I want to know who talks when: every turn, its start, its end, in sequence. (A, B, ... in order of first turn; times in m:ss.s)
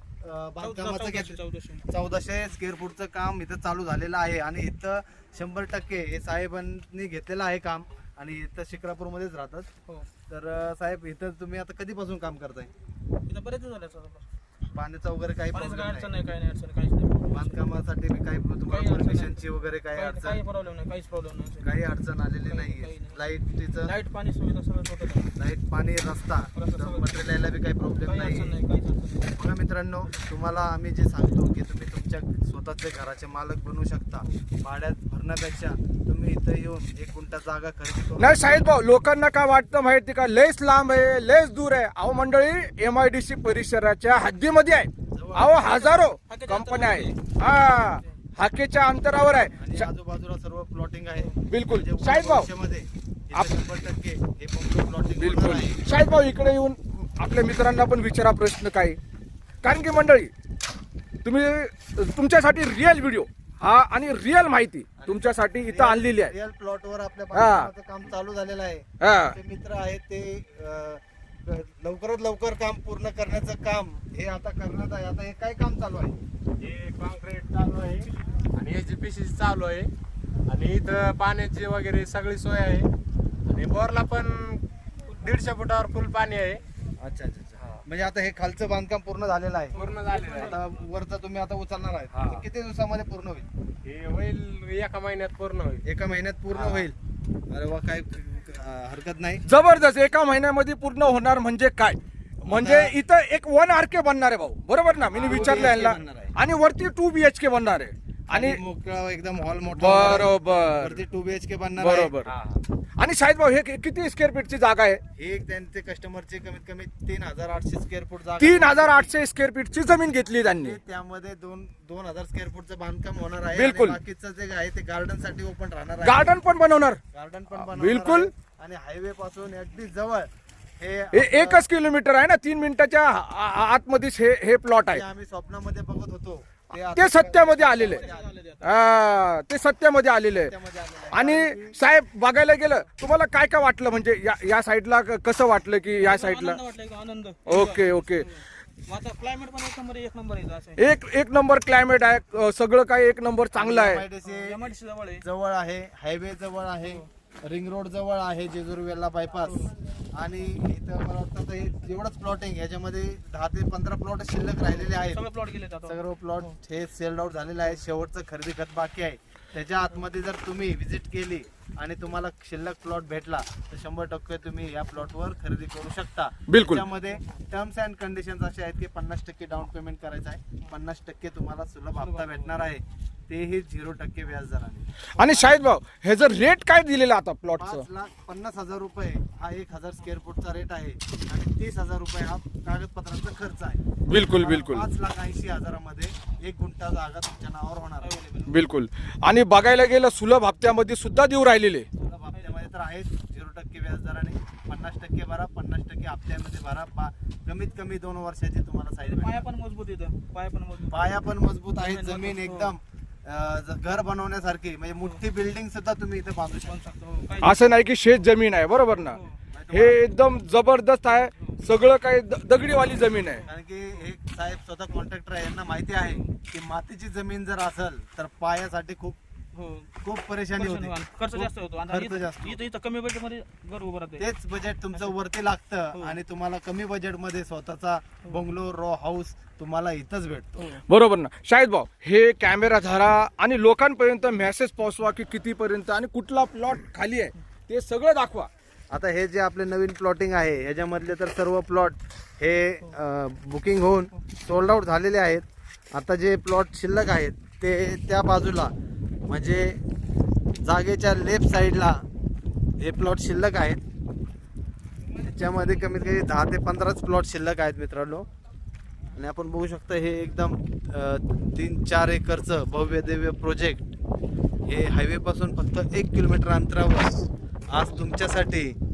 0:00.2-0:09.7 A
0:00.6-0:01.8 B
0:10.3-0:12.7 A
0:13.2-0:14.2 B
0:14.7-0:16.1 A
0:15.5-0:17.6 B
0:17.3-0:20.4 A
0:18.7-0:19.4 B
0:19.9-0:21.7 B
0:21.6-0:23.9 A
0:22.4-0:23.2 B
0:23.8-0:25.3 B
0:25.4-0:28.5 A
0:26.5-0:27.2 B
0:28.0-0:29.4 B
0:29.4-0:38.6 A
0:38.2-0:49.9 C
0:45.1-0:45.7 A
0:45.6-0:47.4 B
0:49.6-0:55.8 A
0:51.5-0:52.5 C
0:55.2-0:59.0 C
0:59.6-1:00.3 C
1:01.2-1:06.3 C
1:05.0-1:16.2 A
1:07.3-1:07.7 C
1:09.0-1:09.4 C
1:16.6-1:19.9 D
1:20.5-1:22.9 D
1:23.4-1:26.6 D
1:27.0-1:29.8 A
1:29.7-1:30.6 D
1:30.2-1:30.5 B
1:30.3-1:33.4 A
1:32.1-1:32.4 D
1:33.8-1:35.8 D
1:35.8-1:37.0 A
1:36.5-1:36.8 D
1:37.5-1:39.4 A
1:39.4-1:48.6 C
1:42.4-1:43.0 A
1:45.1-1:46.3 A
1:45.1-1:45.6 D
1:48.3-1:52.6 A
1:49.7-1:51.0 C
1:51.8-1:52.3 C
1:53.0-1:55.0 C
1:55.2-1:59.1 A
1:58.4-2:00.8 C
2:00.4-2:06.3 A
2:03.5-2:04.0 C
2:06.0-2:07.0 C
2:07.1-2:11.6 A
2:07.5-2:08.3 C
2:11.1-2:15.0 C
2:14.9-2:18.3 A
2:16.8-2:18.0 C
2:17.8-2:18.9 B
2:18.6-2:20.5 C
2:20.4-2:21.8 A
2:21.1-2:26.6 C
2:25.9-2:31.0 B
2:27.4-2:28.3 C
2:30.8-2:34.0 C
2:33.5-2:45.2 A
2:34.2-2:35.2 B
2:39.4-2:39.7 B
2:44.6-2:46.6 B
2:45.8-3:05.6 A
2:56.5-2:56.8 C
3:02.0-3:02.6 B
3:05.2-3:07.8 C
3:07.6-3:18.1 A
3:14.0-3:14.8 C
3:18.0-3:18.6 B
3:18.5-3:21.9 C
3:22.0-3:29.4 A
3:29.0-3:31.2 B
3:30.9-3:36.9 A
3:31.8-3:32.7 B
3:36.7-3:37.8 B
3:37.4-3:39.2 C
3:39.0-3:39.4 B
3:39.5-3:40.0 A
3:39.7-3:43.4 C
3:41.1-3:41.6 B
3:43.4-3:49.2 A
3:49.5-3:49.9 B
3:50.0-3:52.6 A
3:50.5-3:54.3 B
3:54.2-4:00.7 A
4:00.6-4:00.8 B
4:00.9-4:08.5 C
4:08.9-4:18.7 A
4:19.3-4:19.8 A
4:20.6-4:22.0 A
4:22.8-4:23.8 A
4:25.2-4:28.2 A
4:29.1-4:33.9 A
4:34.6-4:38.8 A